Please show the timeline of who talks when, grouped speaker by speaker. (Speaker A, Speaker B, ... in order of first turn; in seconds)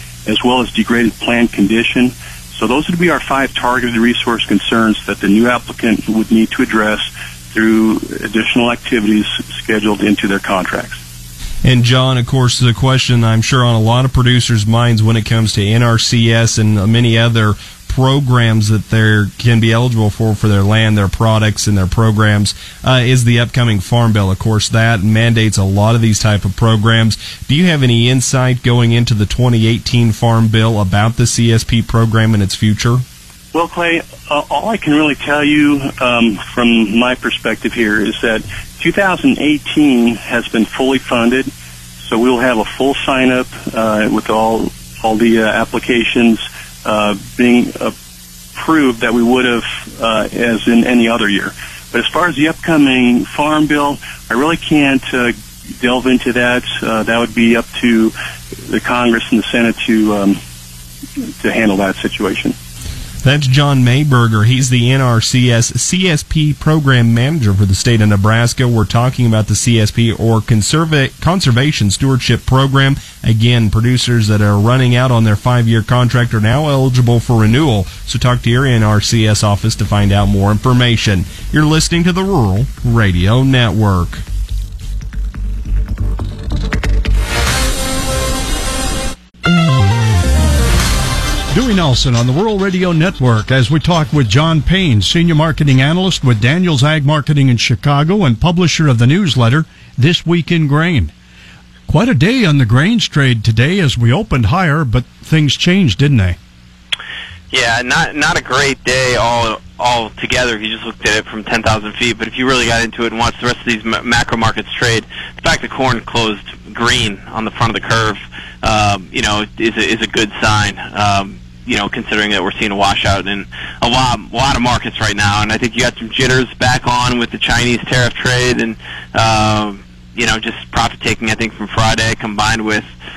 Speaker A: 0.3-11.0, 33.5-41.5, 42.0-47.9, 48.5-58.1, 58.7-60.4, 61.4-62.6
Speaker B: 11.6-33.0, 63.2-84.2
Speaker C: 91.5-101.1, 101.9-106.4
Speaker D: 107.5-132.9